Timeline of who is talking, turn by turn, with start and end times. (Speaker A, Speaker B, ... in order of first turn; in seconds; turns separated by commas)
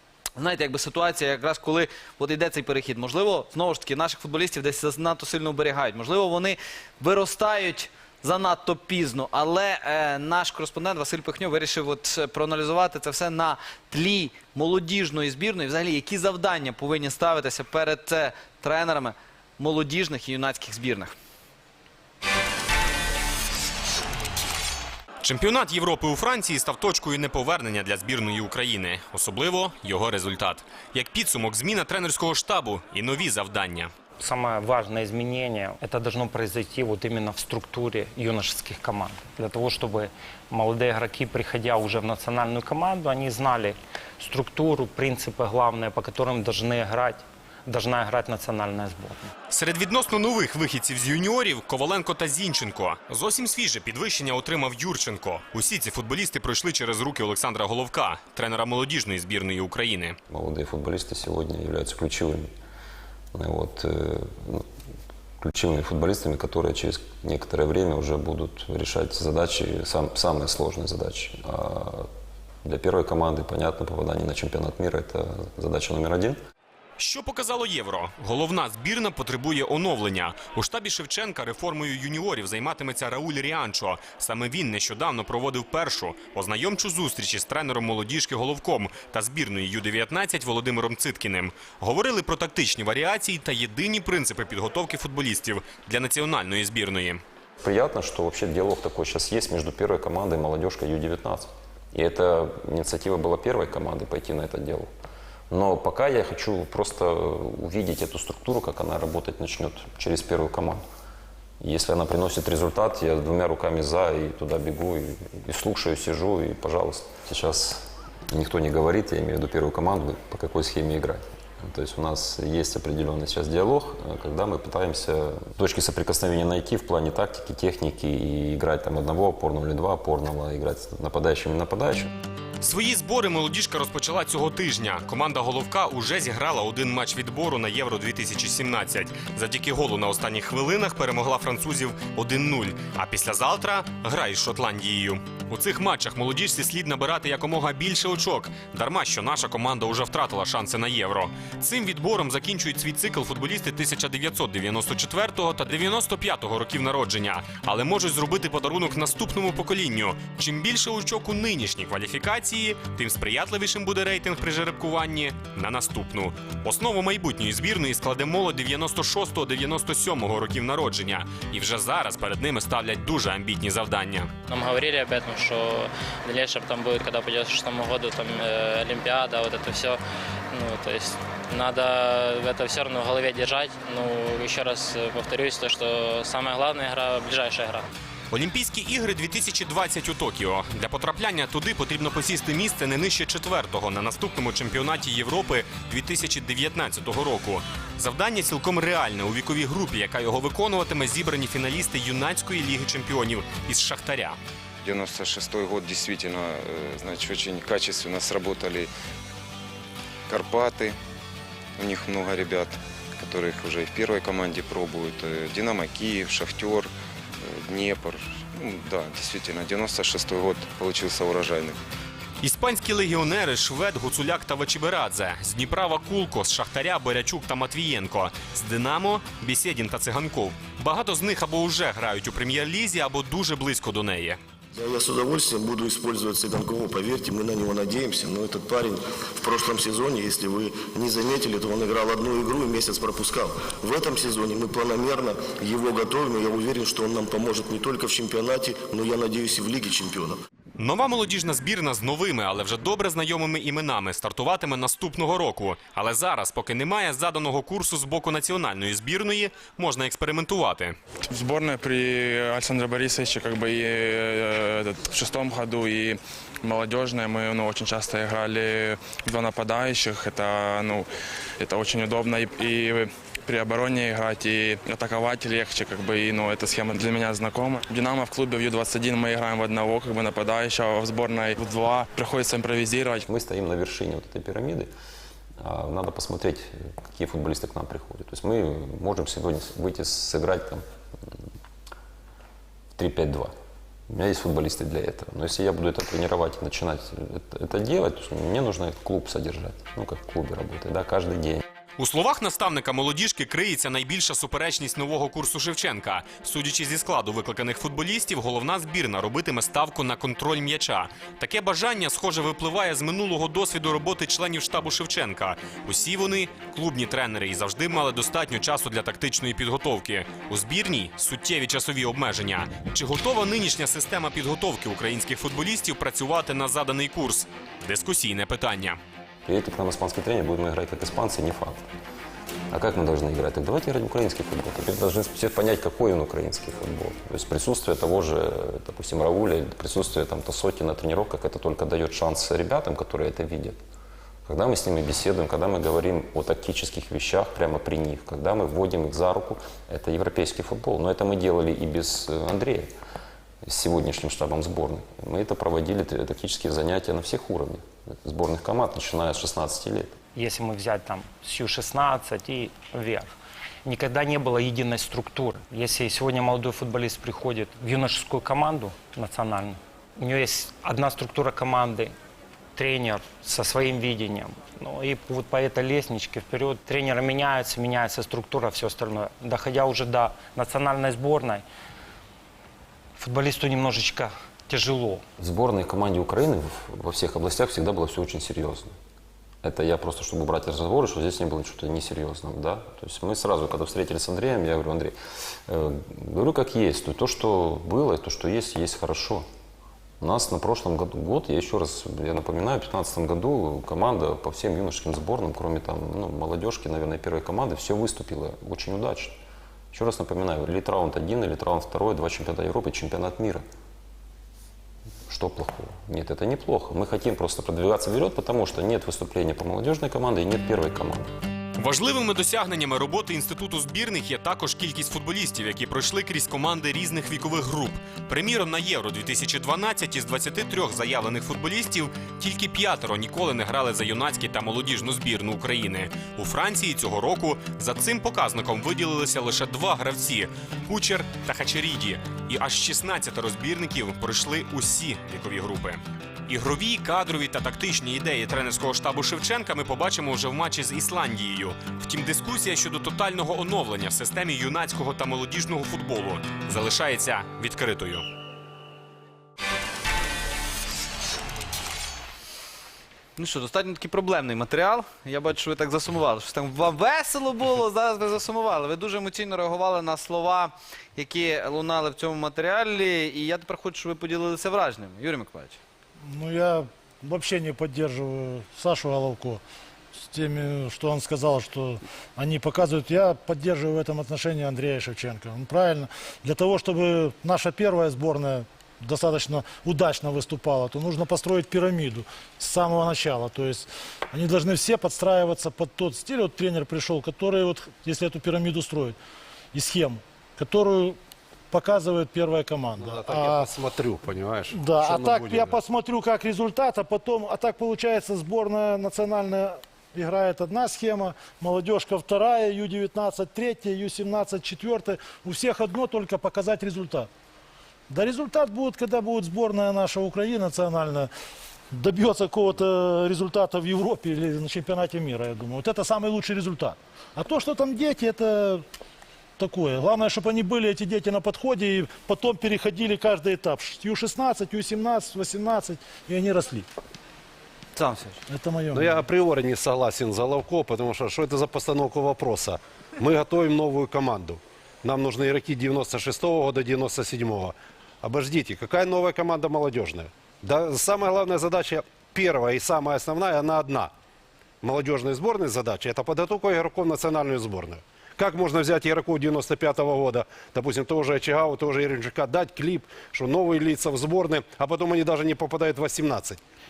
Speaker A: 0.4-21.1, Speaker B: 25.2-33.9, Speaker C: 34.2-49.3, Speaker B: 49.5-60.2, Speaker D: 60.3-62.5, Speaker D: 63.3-64.6, Speaker D: 65.4-72.1, Speaker D: 72.6-76.4, Speaker B: 77.0-97.2, Speaker D: 97.6-104.9, Speaker D: 105.5-110.8, Speaker D: 111.6-132.1, Speaker B: 132.6-174.3, Speaker E: 174.5-180.0, Speaker E: 180.5-187.8, Speaker B: 188.3-204.4, Speaker F: 204.8-208.9, Speaker F: 210.3-211.0, Speaker F: 211.8-221.8, Speaker B: 222.4-234.4, Speaker G: 234.7-250.4, Speaker B: 250.8-260.9, Speaker H: 261.3-271.0, Speaker H: 271.6-283.2, Speaker D: 283.2-284.9, Speaker D: 285.6-290.8, Speaker D: 292.9-293.5, Speaker D: 294.1-301.6, Speaker B: 302.0-329.0, Speaker D: 329.4-331.8, Speaker D: 332.7-343.8, Speaker D: 344.4-352.9, Speaker D: 353.6-360.2, Speaker C: 360.3-363.3, Speaker C: 363.8-372.1, Speaker C: 372.8-381.6, Speaker C: 383.2-385.2, Speaker D: 385.4-388.9, Speaker D: 389.6-395.1, Speaker D: 395.7-399.4, Speaker D: 400.2-409.4, Speaker D: 409.9-413.6, Speaker D: 415.3-421.3, Speaker B: 421.8-458.2, Speaker A: 463.4-475.8, Speaker I: 476.2-479.6, Speaker I: 480.3-499.2, Speaker I: 499.7-501.2, Speaker I: 501.7-503.7, Speaker J: 503.0-505.7, Speaker I: 504.7-517.3, Speaker I: 518.1-521.3, Speaker I: 521.9-528.8, Speaker I: 529.6-536.9, Speaker A: 537.9-538.4, Speaker I: 538.5-539.2, Speaker J: 538.9-554.1, Speaker J: 554.8-566.6